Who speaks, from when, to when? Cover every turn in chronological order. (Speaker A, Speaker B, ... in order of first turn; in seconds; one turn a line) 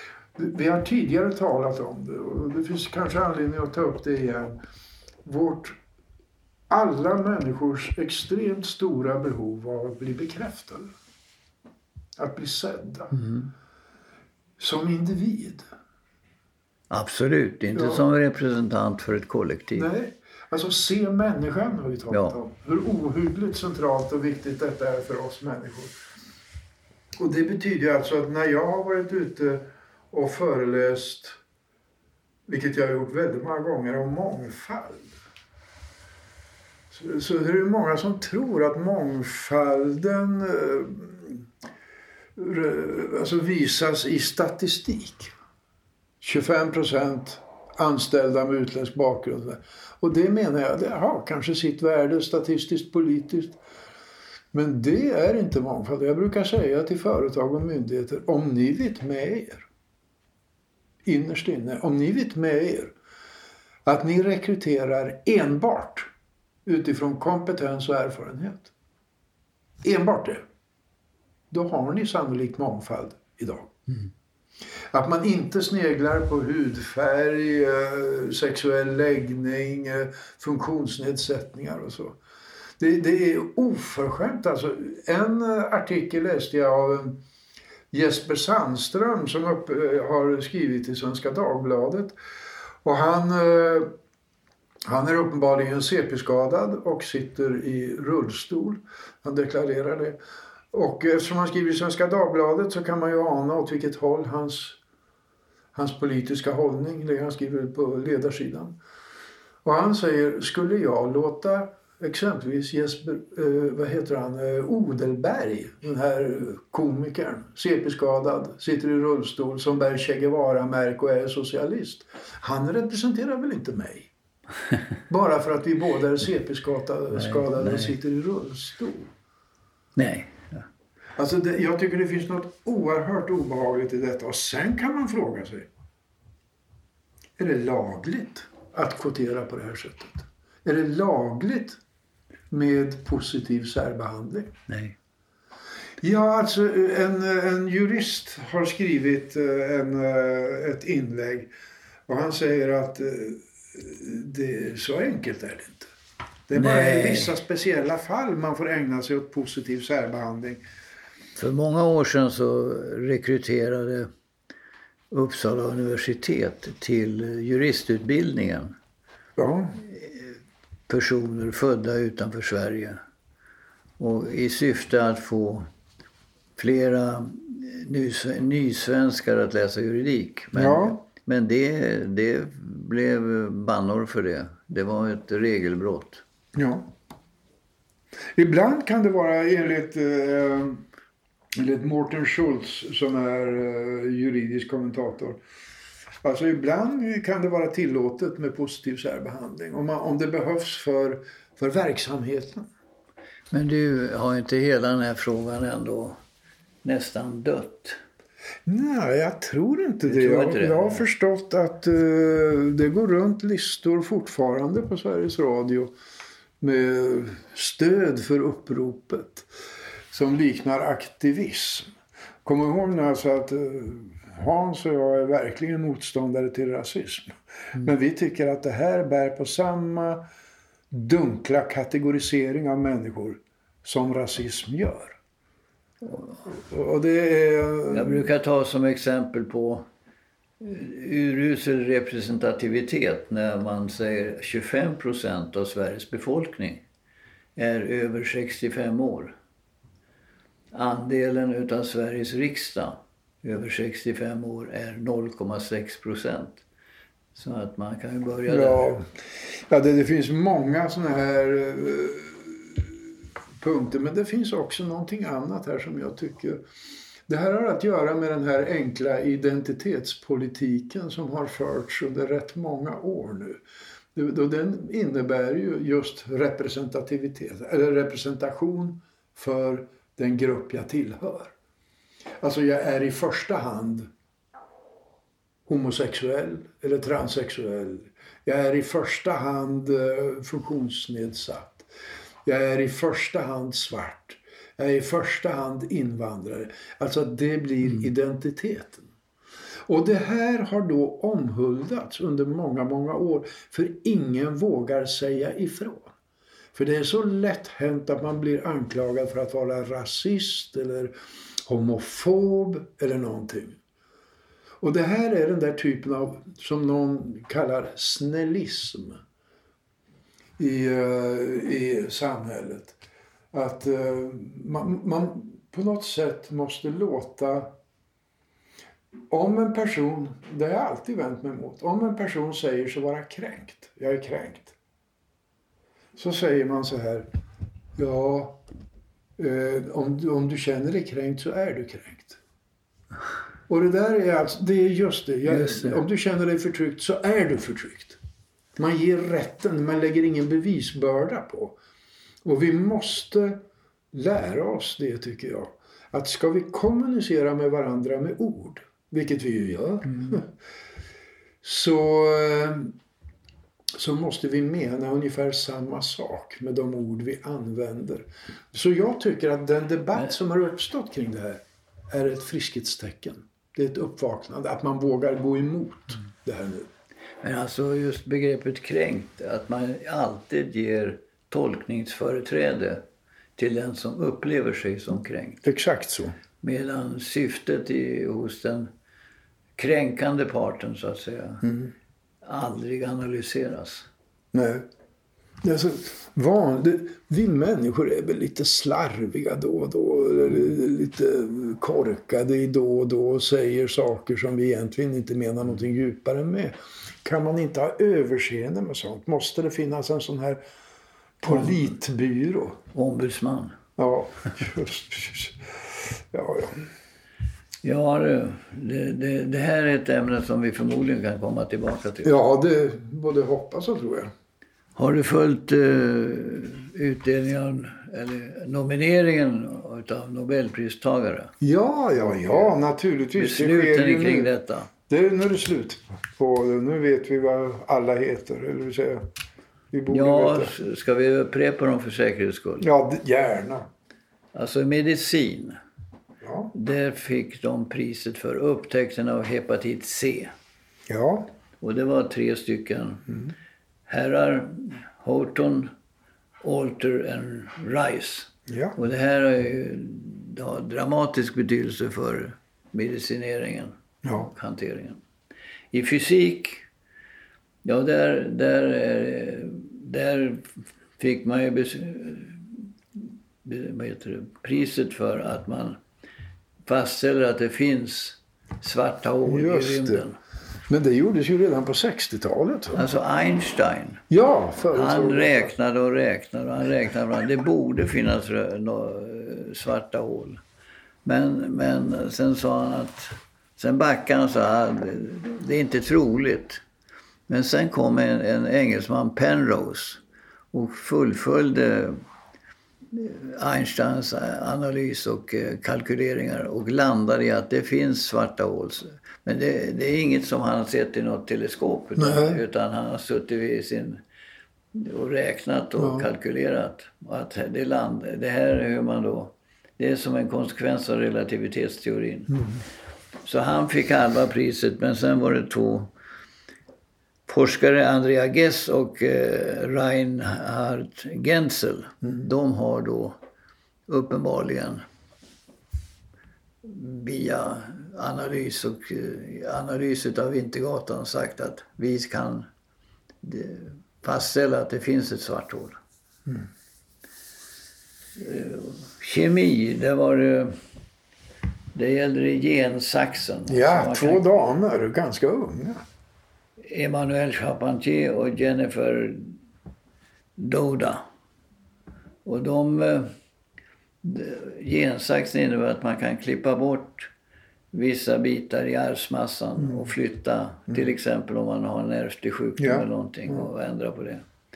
Speaker A: 0.3-4.6
Speaker A: 5.2-5.8
Speaker A: 6.7-10.9
Speaker A: 12.2-13.2
Speaker B: 13.2-13.5
Speaker A: 14.6-15.7
Speaker B: 16.9-19.9
Speaker A: 17.7-18.0
Speaker A: 19.8-25.9
Speaker B: 22.1-22.4
Speaker A: 27.2-31.4
Speaker A: 32.5-35.1
Speaker A: 36.9-41.5
Speaker A: 42.4-45.3
Speaker A: 46.2-53.6
Speaker A: 54.5-59.7
Speaker A: 61.0-62.9
Speaker A: 63.9-66.1
Speaker A: 66.7-68.7
Speaker A: 69.8-70.4
Speaker A: 71.5-73.8
Speaker A: 74.9-82.2
Speaker A: 82.8-87.2
Speaker A: 87.9-92.1
Speaker A: 92.8-93.9
Speaker A: 94.8-100.2
Speaker A: 100.7-104.8
Speaker A: 105.7-108.8
Speaker A: 109.6-124.1
Speaker A: 125.1-129.1
Speaker B: 127.1-128.0
Speaker B: 130.0-130.7
Speaker A: 131.2-135.7
Speaker A: 137.4-141.8
Speaker A: 142.5-144.5
Speaker B: 144.7-145.0
Speaker A: 146.0-151.5
Speaker A: 152.1-155.9
Speaker A: 156.5-160.6
Speaker B: 156.5-157.4
Speaker B: 161.4-164.1
Speaker B: 165.1-168.8
Speaker A: 169.4-169.8
Speaker B: 169.8-170.3
Speaker B: 170.9-173.0
Speaker B: 174.0-175.7
Speaker B: 176.6-186.2
Speaker A: 180.5-181.0
Speaker A: 186.6-186.9
Speaker A: 188.3-190.8
Speaker A: 191.5-195.4
Speaker A: 196.2-202.7
Speaker B: 203.5-206.2
Speaker B: 206.8-208.0
Speaker A: 208.7-215.9
Speaker B: 210.1-211.1
Speaker A: 216.6-219.5
Speaker A: 220.1-221.9
Speaker A: 222.4-230.2
Speaker A: 230.9-235.2
Speaker A: 236.5-238.2
Speaker B: 237.9-239.8
Speaker B: 240.6-246.8
Speaker B: 247.6-249.3
Speaker B: 250.7-256.6
Speaker B: 257.4-259.0
Speaker A: 258.5-262.9
Speaker A: 263.6-266.6
Speaker A: 267.3-273.6
Speaker A: 274.1-281.5
Speaker A: 282.4-284.1
Speaker A: 285.7-291.9
Speaker A: 292.5-299.1
Speaker A: 299.9-306.1
Speaker A: 306.7-311.1
Speaker A: 311.7-313.8
Speaker A: 314.8-319.2
Speaker A: 320.6-323.0
Speaker A: 323.5-327.8
Speaker A: 329.3-334.8
Speaker A: 336.2-337.3
Speaker A: 338.0-338.6
Speaker A: 339.4-342.4
Speaker A: 343.7-348.2
Speaker B: 345.5-346.0
Speaker A: 348.8-351.8
Speaker A: 352.4-353.6
Speaker A: 354.1-360.5
Speaker A: 361.6-362.9
Speaker A: 363.9-376.9
Speaker B: 377.4-383.0
Speaker B: 383.6-385.6
Speaker A: 385.6-386.4
Speaker B: 386.6-388.9
Speaker B: 389.8-391.7
Speaker A: 391.6-391.9
Speaker B: 392.4-394.1
Speaker A: 394.5-394.9
Speaker A: 395.6-410.6
Speaker A: 411.4-412.8
Speaker B: 412.9-413.8
Speaker A: 414.0-416.9
Speaker B: 417.8-422.4
Speaker A: 422.2-424.3
Speaker B: 425.0-431.5
Speaker A: 431.6-434.5
Speaker B: 433.4-434.9
Speaker A: 435.1-439.3
Speaker A: 439.9-440.7
Speaker B: 440.1-442.9
Speaker A: 442.8-443.9
Speaker B: 444.5-445.8
Speaker A: 446.4-446.7
Speaker B: 446.7-450.5
Speaker A: 451.1-451.5
Speaker B: 451.8-453.3
Speaker B: 454.1-455.9
Speaker B: 456.6-465.2
Speaker A: 458.7-459.0
Speaker A: 464.2-464.5
Speaker B: 465.9-466.9
Speaker B: 467.8-476.0
Speaker B: 476.9-480.4
Speaker A: 479.5-480.3
Speaker A: 480.9-483.1
Speaker B: 482.9-484.2
Speaker A: 484.3-485.7
Speaker B: 484.9-490.6
Speaker B: 491.2-496.8
Speaker B: 497.5-502.2
Speaker B: 503.1-514.2
Speaker A: 512.2-512.6
Speaker B: 514.9-522.6
Speaker A: 516.0-516.3
Speaker B: 523.5-526.1
Speaker B: 527.5-533.4
Speaker B: 534.1-535.0
Speaker B: 536.8-542.7
Speaker B: 543.4-546.0
Speaker B: 548.4-550.8
Speaker B: 551.9-554.5
Speaker A: 553.7-556.0
Speaker B: 556.8-559.6
Speaker B: 560.6-561.2
Speaker B: 562.5-563.3
Speaker B: 564.2-567.3
Speaker B: 567.9-574.5
Speaker A: 572.8-573.6